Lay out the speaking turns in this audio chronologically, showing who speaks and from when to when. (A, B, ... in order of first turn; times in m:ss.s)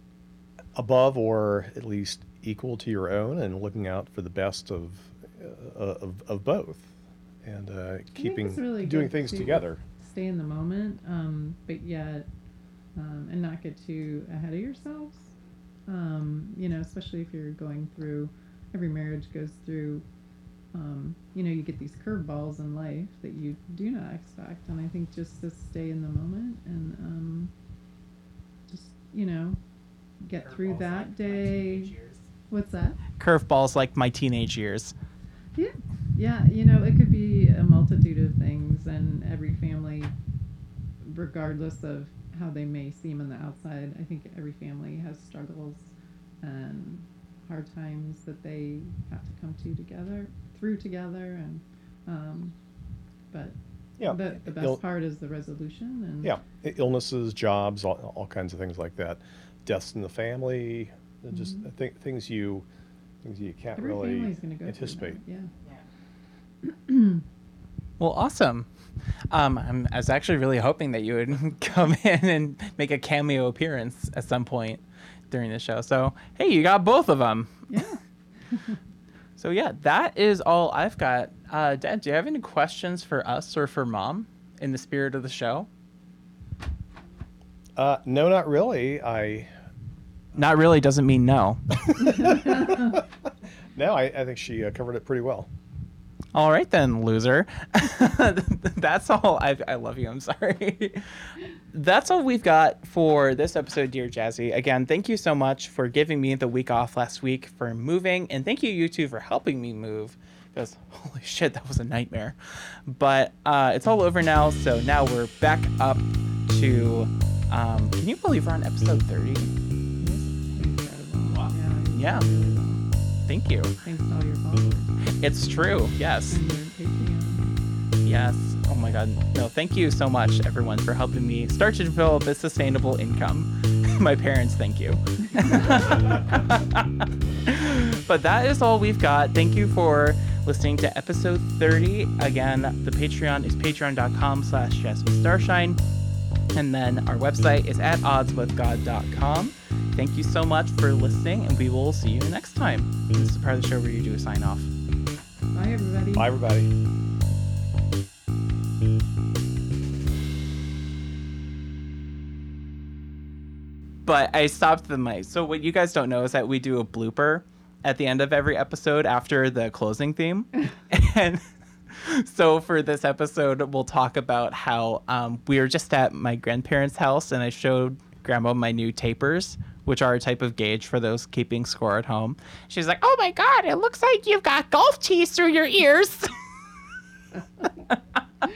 0:00.7-0:06.9 A
0:07.4-0:09.8 A
0:08.2-0:12.3 B
0:13.0-0:15.3 B
0:15.9-0:20.0 B
0:20.7-0:27.5 B
0:28.7-0:29.6 B
0:30.2-0:31.9 B
0:30.4-0:32.3 C
0:32.5-0:33.0 B
0:33.2-0:34.9 C
0:35.5-0:40.1 B
0:41.0-0:52.5 B
0:54.0-0:54.8 A
0:54.1-0:56.4 B
0:56.2-1:02.6 A
1:01.3-1:01.6 B
1:03.2-1:05.2 A
1:03.8-1:05.5 B
1:06.6-1:07.2 B
1:08.0-1:08.7 C
1:09.3-1:17.6 C
1:17.7-1:18.8 B
1:19.4-1:25.7 C
1:27.8-1:29.5 A
1:30.4-1:32.6 C
1:32.0-1:33.0 B
1:32.1-1:33.0 A
1:33.7-1:35.5 A
1:36.3-1:59.5 C
2:00.0-2:02.8 B
2:01.3-2:02.2 C
2:03.2-2:03.8 C
2:03.8-2:04.9 B
2:05.0-2:06.4 C
2:06.3-2:07.5 B
2:08.0-2:25.8 C
2:26.5-2:34.7 C
2:35.5-2:36.3 B
2:36.2-2:36.7 A
2:44.0-3:06.4 C
3:07.6-3:08.2 C